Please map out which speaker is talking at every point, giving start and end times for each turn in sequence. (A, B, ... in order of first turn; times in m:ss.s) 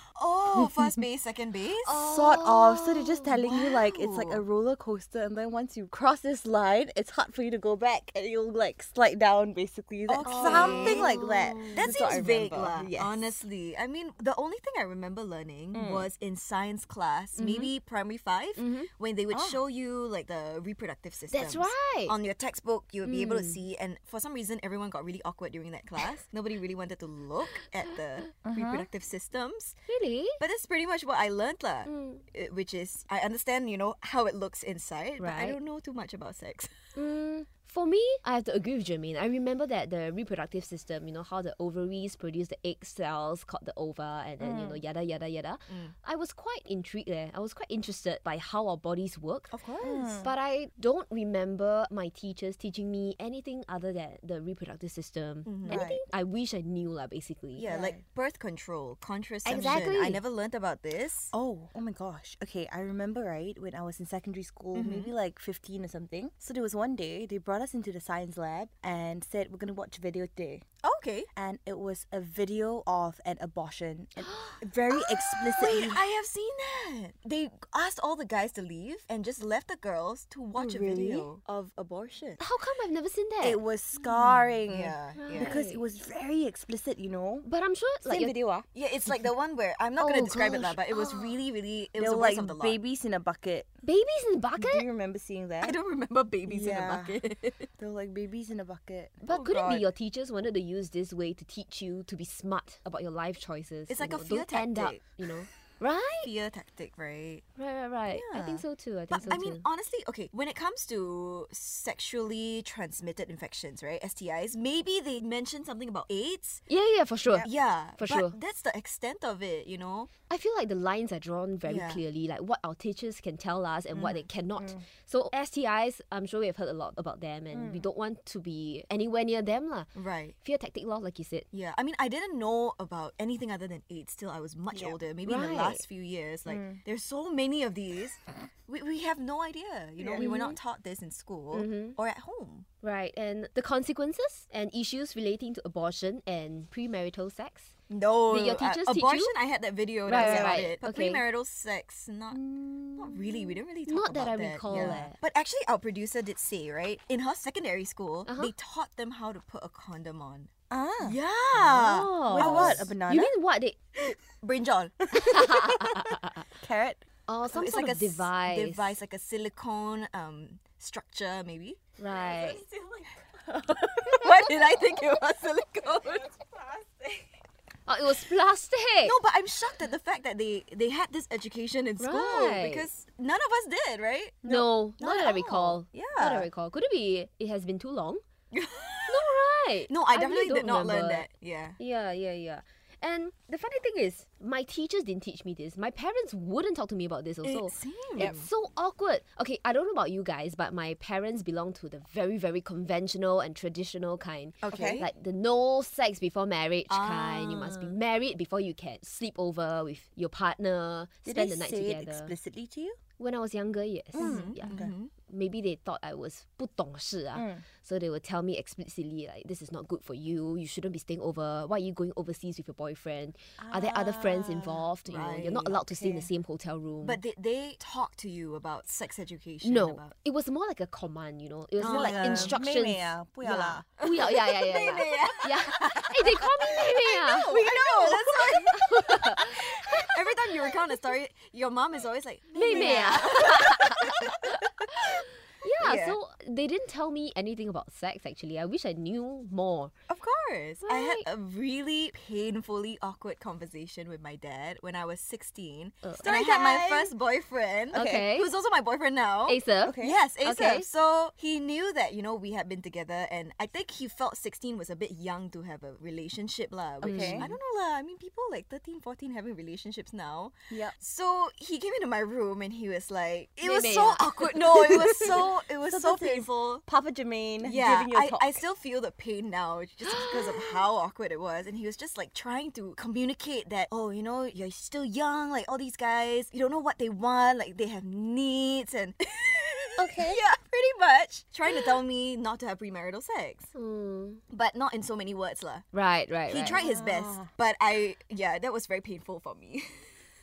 0:00.1-0:02.0 A
0:00.5-0:00.9 B
0:01.8-0:03.3 C
0:01.9-0:13.3 B
0:03.4-0:04.4 A
0:10.1-0:11.1 A
0:10.2-0:12.1 C
0:11.7-0:29.8 A
0:15.7-0:16.1 B
0:17.4-0:17.7 C
0:18.6-0:18.9 C
0:19.3-0:19.6 B
0:21.3-0:22.2 C
0:23.0-0:23.6 C
0:28.4-0:28.9 B
0:29.9-0:30.4 C
0:30.4-0:36.8 A
0:31.8-0:32.2 C
0:35.2-0:35.6 C
0:36.9-0:49.5 C
0:44.4-0:44.8 B
0:45.7-0:45.9 A
0:49.5-0:50.1 A
0:49.8-0:50.3 B
0:50.2-0:57.6 C
0:55.4-0:55.9 A
0:55.7-0:56.0 B
0:57.6-1:01.3 A
0:57.7-0:58.0 B
0:59.4-1:00.2 C
0:59.5-0:59.9 B
1:01.3-1:10.6 B
1:04.7-1:05.1 A
1:10.8-1:11.3 A
1:11.3-1:16.0 B
1:14.2-1:14.6 C
1:14.9-1:22.4 A
1:20.6-1:21.2 B
1:20.6-1:21.2 C
1:22.4-1:23.6 C
1:23.4-1:27.4 B
1:24.0-1:25.6 A
1:25.2-1:25.8 C
1:27.4-1:28.3 C
1:28.0-1:28.6 B
1:28.7-1:32.8 A
1:30.0-1:31.4 C
1:31.9-1:33.7 B
1:33.8-1:34.8 C
1:34.6-1:35.8 B
1:35.6-1:37.7 A
1:36.5-1:37.2 B
1:37.8-1:39.2 B
1:39.2-1:46.3 C
1:39.2-1:39.9 A
1:43.9-1:45.0 A
1:46.2-1:47.4 A
1:47.6-1:49.6 C
1:48.1-1:56.6 A
1:56.7-1:58.4 C
1:57.4-2:00.1 A
2:00.3-2:09.9 C
2:01.7-2:02.0 A
2:03.9-2:04.3 A
2:04.6-2:04.8 B
2:07.5-2:07.8 B
2:09.9-2:10.4 A
2:10.4-2:11.4 C
2:11.5-2:22.6 A
2:15.2-2:15.8 C
2:16.5-2:16.8 B
2:20.0-2:20.3 B
2:20.2-2:20.6 C
2:21.5-2:22.0 C
2:22.8-2:27.7 C
2:27.9-2:32.4 A
2:28.3-2:29.3 C
2:30.1-2:31.2 C
2:30.1-2:30.6 B
2:32.3-2:33.6 B
2:32.9-2:42.9 A
2:33.8-2:35.2 C
2:34.7-2:35.1 B
2:38.3-2:38.5 C
2:40.7-2:41.2 B
2:41.6-2:43.8 C
2:42.2-2:43.3 B
2:44.0-2:45.7 A
2:45.1-2:46.4 C
2:45.4-2:47.0 B
2:47.3-2:48.9 C
2:47.5-2:53.1 A
2:52.0-2:52.6 C
2:53.5-2:54.5 B
2:53.9-2:56.3 A
2:56.2-2:57.2 B
2:57.9-2:59.2 C
2:59.0-3:06.5 A
3:02.0-3:02.9 C
3:04.4-3:08.2 C
3:08.5-3:09.3 A
3:09.1-3:11.3 C
3:09.9-3:11.8 A
3:11.8-3:32.3 C
3:17.4-3:18.5 A
3:24.6-3:25.1 A
3:24.7-3:25.0 B
3:26.9-3:27.9 A
3:31.2-3:33.0 B
3:33.2-3:47.2 C
3:34.1-3:34.9 B
3:34.2-3:35.1 A
3:37.3-3:37.6 B
3:43.6-3:44.8 B
3:45.0-3:45.8 A
3:45.7-3:46.3 B
3:47.0-3:50.1 A
3:49.6-3:57.5 C
3:51.8-3:52.6 A
3:51.8-3:54.0 B
3:54.0-3:58.8 A
3:57.4-3:58.7 B
3:58.6-4:00.2 C
3:59.4-4:04.5 A
4:02.5-4:09.9 C
4:02.7-4:03.0 B
4:05.8-4:06.2 A
4:10.1-4:36.8 A
4:10.8-4:11.2 C
4:16.0-4:17.1 C
4:16.2-4:16.7 B
4:17.9-4:18.3 B
4:17.9-4:18.5 C
4:19.5-4:20.9 C
4:19.8-4:20.2 B
4:27.0-4:27.5 C
4:27.0-4:27.6 B
4:30.7-4:30.9 B
4:33.6-4:34.5 C
4:34.8-4:38.6 B
4:37.6-4:53.7 A
4:40.0-4:40.8 C
4:50.0-4:50.4 B
4:53.7-4:54.4 C
4:54.5-4:55.8 A
4:55.9-4:56.8 C
4:56.5-5:00.0 A
4:56.7-4:57.5 B